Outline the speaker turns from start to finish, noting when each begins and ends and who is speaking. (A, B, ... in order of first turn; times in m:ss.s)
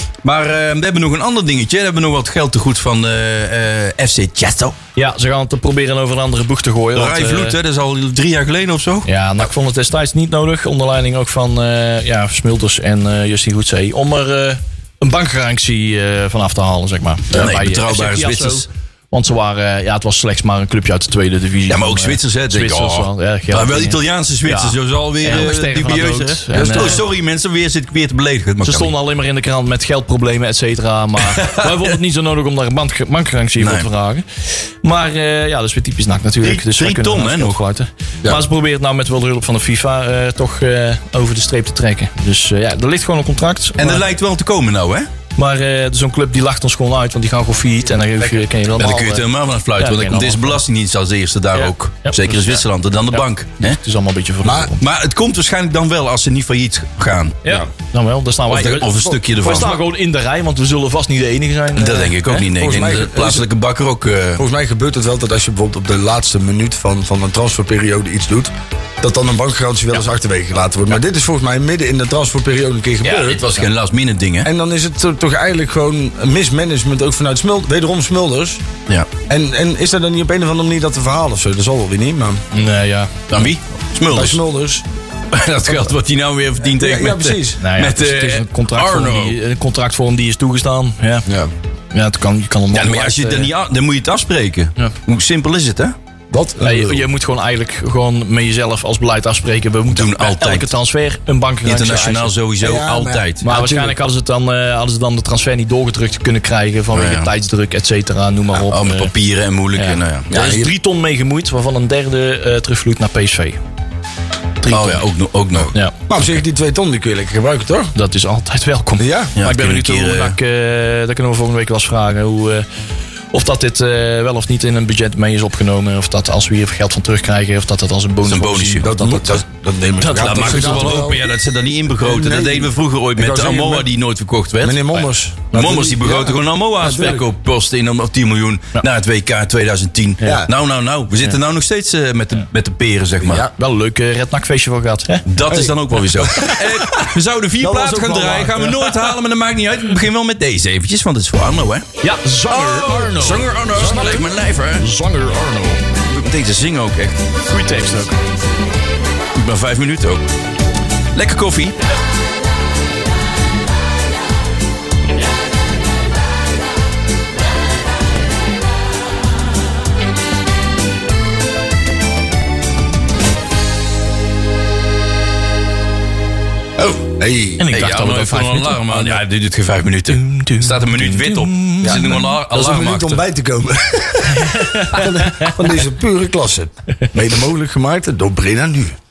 0:00.2-0:04.8 A
0:05.0-0:07.6 B
0:07.0-0:09.1 A
0:09.0-0:27.0 B
0:17.3-0:18.7 A
0:21.7-0:28.9 A
0:28.6-0:44.1 B
0:31.2-0:31.9 A
0:33.6-0:33.9 A
0:36.4-0:37.6 A
0:43.8-0:45.1 A
0:45.4-0:49.2 B
0:48.8-0:53.8 A
0:49.8-0:50.6 B
0:51.5-0:54.8 B
0:54.4-0:54.7 C
0:54.8-0:57.4 A
0:57.4-1:02.4 B
0:58.5-0:59.8 A
0:58.8-0:59.2 C
1:01.8-1:04.4 A
1:02.5-1:03.5 C
1:04.4-1:13.6 C
1:13.0-1:14.5 A
1:14.4-1:18.6 C
1:19.3-1:22.4 C
1:22.5-1:23.2 B
1:23.3-1:24.4 A
1:24.1-1:24.8 C
1:25.3-1:29.4 A
1:26.6-1:27.6 C
1:27.6-1:31.3 B
1:31.3-1:31.5 C
1:31.9-1:33.5 B
1:32.7-1:36.0 A
1:36.3-1:37.1 C
1:36.6-1:42.3 B
1:39.9-1:40.7 A
1:41.6-1:43.5 A
1:42.6-1:44.0 C
1:43.4-1:49.1 B
1:46.9-1:47.3 A
1:48.5-1:50.3 A
1:49.8-1:53.6 B
1:50.3-1:50.7 C
1:54.6-1:55.0 B
1:54.7-1:55.8 A
1:56.1-1:57.9 C
1:58.0-2:02.6 B
1:59.0-1:59.4 C
1:59.4-2:00.4 A
2:03.3-2:09.4 B
2:08.2-2:08.9 A
2:08.8-2:11.2 C
2:10.0-2:11.0 B
2:10.1-2:23.5 A
2:12.0-2:13.9 C
2:14.6-2:17.2 C
2:20.2-2:20.5 C
2:23.2-2:23.5 C
2:23.6-2:25.3 B
2:25.3-2:31.9 A
2:25.5-2:26.2 C
2:26.3-2:26.6 B
2:27.6-2:28.7 C
2:32.0-2:35.8 B
2:32.5-2:34.9 A
2:36.1-2:37.2 A
2:37.4-2:38.2 B
2:39.4-2:40.3 A
2:41.1-2:41.8 A
2:56.8-2:57.7 C
2:57.6-2:59.2 B
2:57.7-3:03.2 A
3:00.1-3:02.4 B
3:01.8-3:09.0 C
3:04.3-3:05.6 B